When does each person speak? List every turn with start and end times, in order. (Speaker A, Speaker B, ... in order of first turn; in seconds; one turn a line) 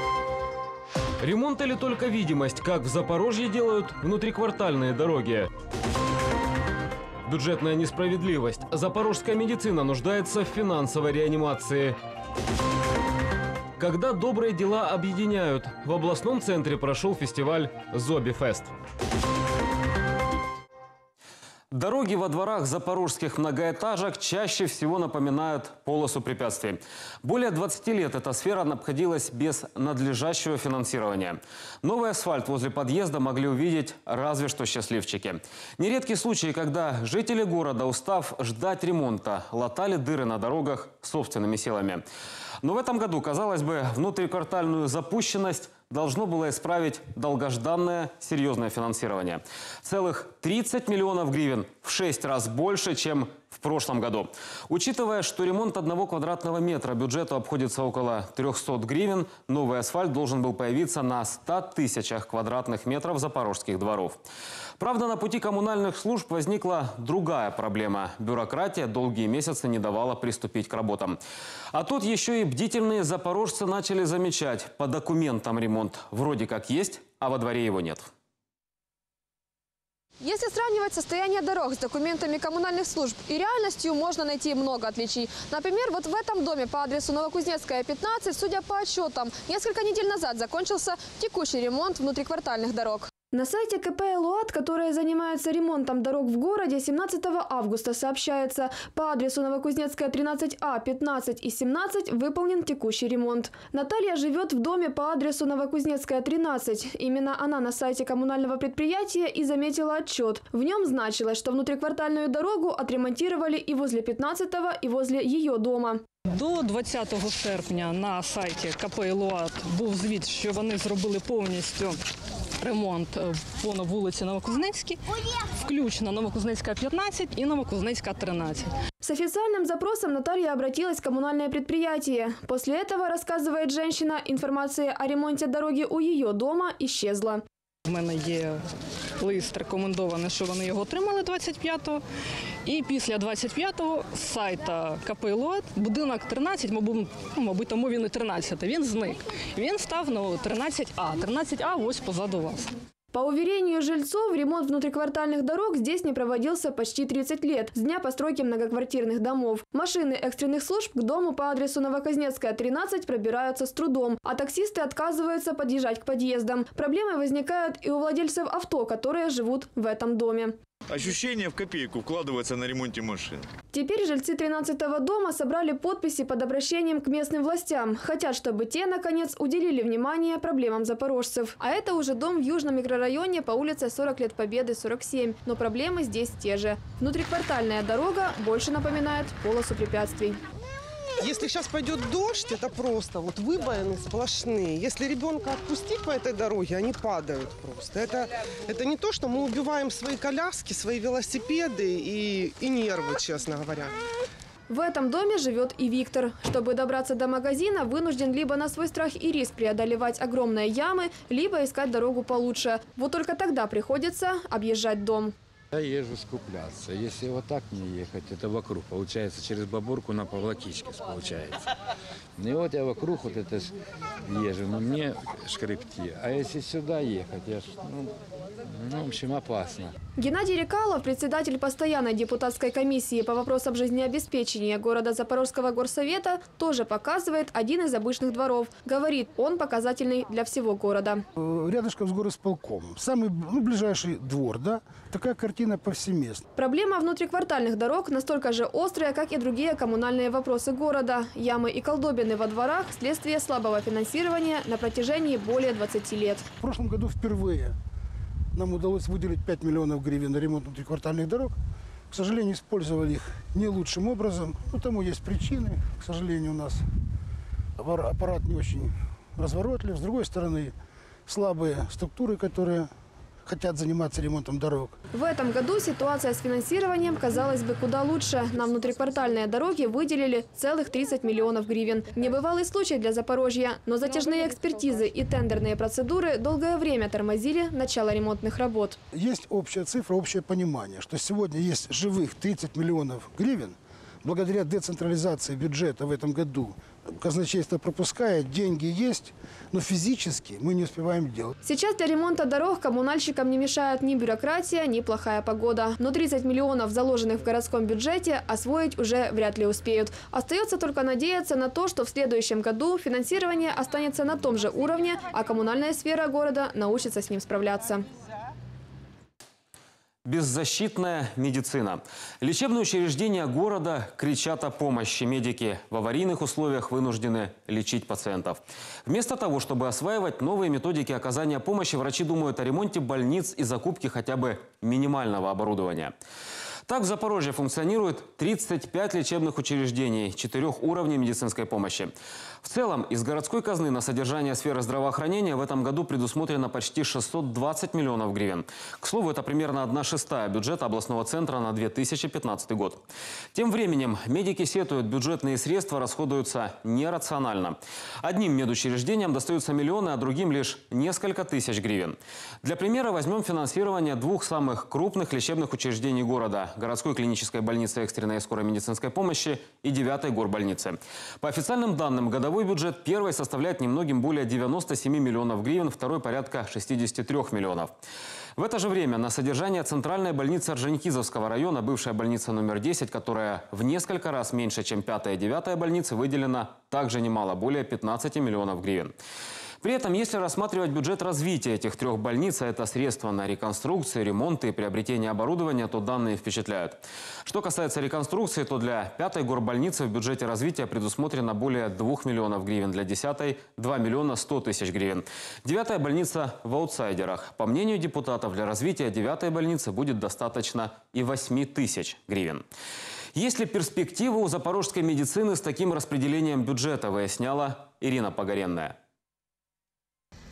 Speaker A: 1.2-5.5
Speaker A: 7.2-12.0
Speaker A: 13.8-18.7
Speaker A: 21.7-42.0
Speaker A: 42.6-64.2
Speaker A: 64.8-71.2
Speaker A: 71.7-78.1
Speaker B: 80.2-116.0
Speaker C: 116.3-121.9
Speaker C: 122.6-125.0
Speaker C: 125.6-128.7
Speaker B: 129.0-137.4
Speaker C: 137.9-138.5
Speaker C: 139.2-142.0
Speaker C: 142.7-152.7
Speaker B: 153.1-170.6
Speaker D: 170.9-173.4
Speaker B: 173.7-190.4
Speaker E: 191.2-204.0
Speaker B: 204.7-215.3
Speaker F: 215.7-221.7
Speaker F: 222.4-223.7
Speaker F: 224.2-229.9
Speaker B: 230.2-241.2
Speaker G: 241.4-246.4
Speaker B: 246.6-256.5
Speaker G: 256.6-257.8
Speaker G: 258.5-261.6
Speaker G: 262.1-266.8
Speaker G: 267.8-270.7
Speaker G: 271.3-272.9
Speaker G: 273.4-274.9
Speaker B: 275.1-289.0
Speaker G: 289.1-301.5
Speaker B: 301.6-318.1
Speaker A: 320.2-336.1
Speaker A: 336.9-353.0
Speaker A: 353.5-377.9
Speaker A: 378.6-389.1
Speaker A: 389.8-412.6
Speaker A: 413.3-418.9